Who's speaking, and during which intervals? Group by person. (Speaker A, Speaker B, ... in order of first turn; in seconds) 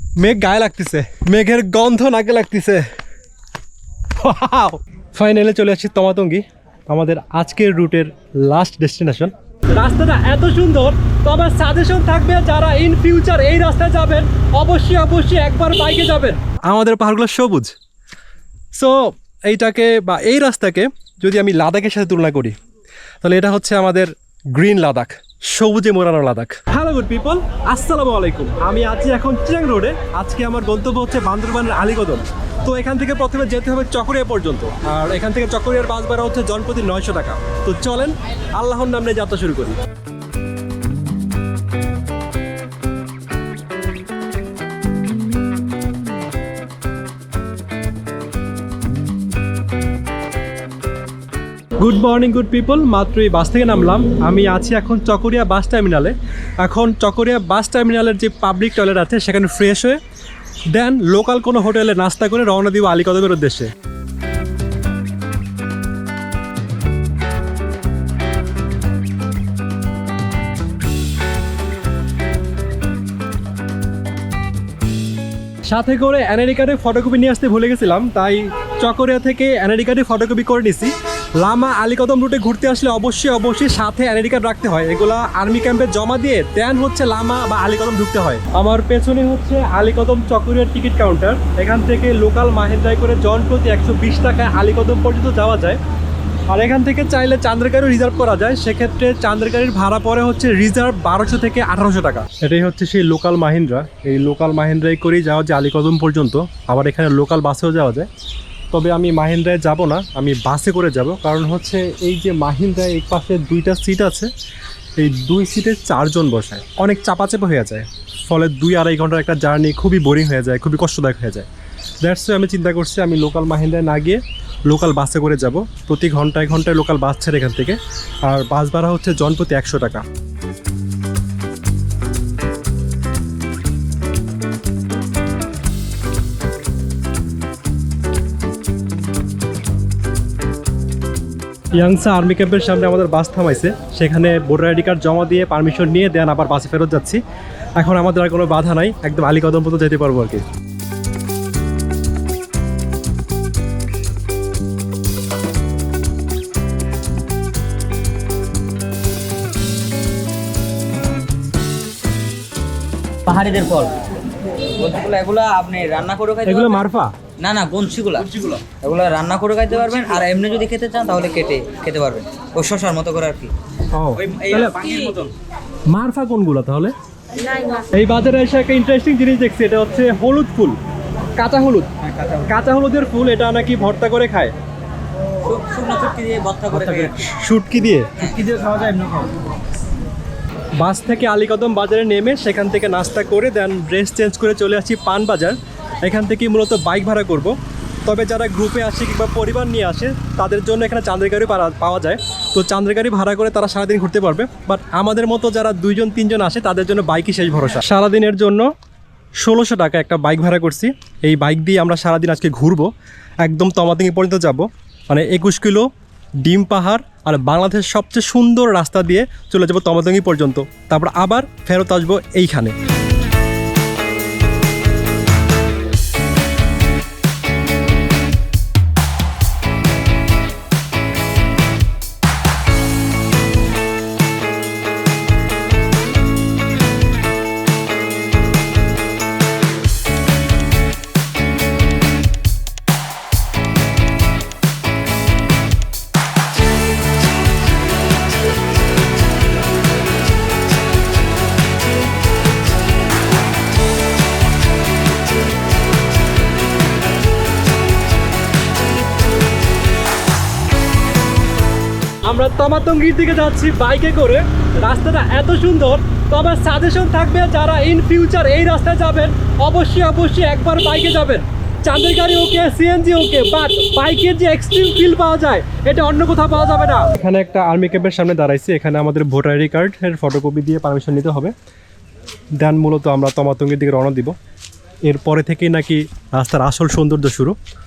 Speaker A: 0.2-2.9, 4.2-17.7, 18.8-22.6, 23.2-39.8, 51.8-60.0, 60.7-63.7, 75.7-95.8, 96.5-108.1, 108.7-114.3, 115.0-121.5, 122.0-130.1, 141.7-147.2, 147.8-150.5, 166.4-167.2, 173.9-174.9, 175.9-176.9, 177.9-180.8, 181.4-181.9, 182.4-184.5, 186.7-188.2, 190.8-208.7, 209.4-212.9, 213.4-215.9, 216.4-222.8, 262.2-281.5, 282.6-284.4, 285.1-287.6
Speaker B: 163.2-173.5, 174.2-175.3, 177.5-177.8, 185.3-187.3, 188.2-189.4